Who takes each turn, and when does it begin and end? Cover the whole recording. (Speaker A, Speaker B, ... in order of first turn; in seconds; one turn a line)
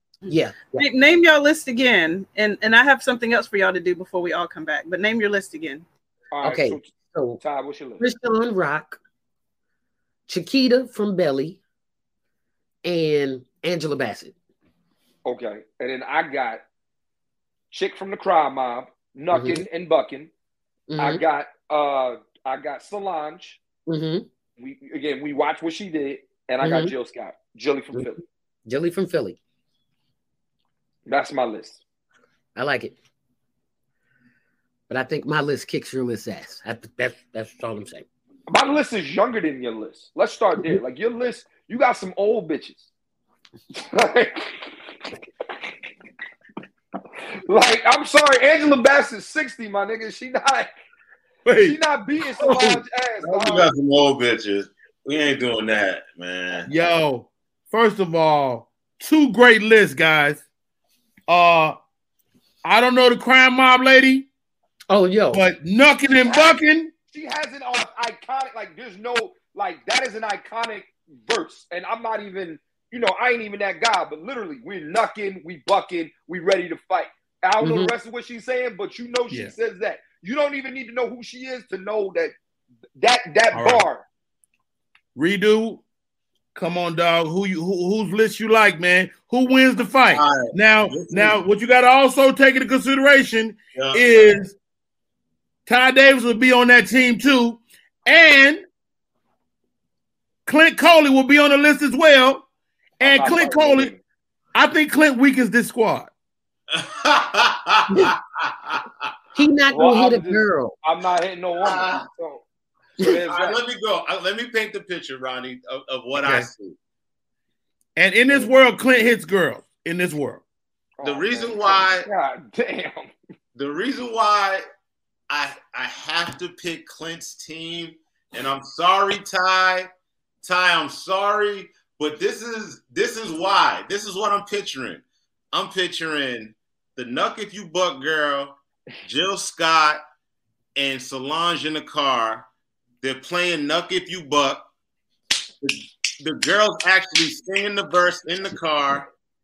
Speaker A: 0.3-0.9
Speaker B: 0.7-5.8
Speaker C: 6.3-8.1
Speaker A: 6.4-7.4
Speaker A: 8.0-9.0
Speaker A: 10.3-11.6
Speaker A: 12.8-14.3
Speaker C: 15.2-16.6
Speaker C: 17.7-20.3
Speaker A: 19.3-19.6
Speaker A: 20.9-21.2
Speaker C: 21.0-23.6
Speaker A: 23.9-24.3
Speaker C: 24.6-28.2
Speaker A: 26.6-26.9
Speaker A: 28.7-29.4
Speaker C: 31.1-31.8
Speaker A: 32.6-33.0
Speaker A: 34.9-38.1
Speaker C: 38.5-42.9
Speaker C: 43.7-44.6
Speaker C: 47.5-50.7
Speaker D: 51.5-51.8
Speaker C: 51.6-53.7
Speaker D: 52.4-52.8
Speaker E: 53.2-56.7
Speaker D: 56.7-60.4
Speaker D: 61.3-61.8
Speaker D: 62.6-64.3
Speaker A: 64.9-65.4
Speaker D: 65.3-66.9
Speaker C: 66.3-66.6
Speaker C: 67.1-82.3
Speaker A: 77.6-77.9
Speaker C: 83.0-84.0
Speaker D: 83.5-83.8
Speaker D: 85.2-85.8
Speaker D: 86.5-94.5
Speaker E: 90.1-91.4
Speaker E: 93.8-94.4
Speaker D: 95.7-98.6
Speaker D: 100.5-102.5
Speaker D: 103.0-103.9
Speaker C: 103.0-104.0
Speaker D: 104.5-106.1
Speaker E: 106.7-108.9
Speaker A: 109.3-110.8
Speaker C: 109.7-112.4
Speaker E: 111.6-112.0
Speaker C: 113.0-113.6
Speaker E: 113.0-116.8
Speaker D: 116.2-116.5
Speaker D: 118.0-120.4
Speaker C: 121.0-123.1
Speaker E: 121.0-122.1
Speaker E: 123.5-124.6
Speaker E: 125.3-129.9
Speaker E: 130.4-140.0
Speaker E: 140.8-142.5
Speaker E: 143.0-144.6
Speaker E: 145.6-149.1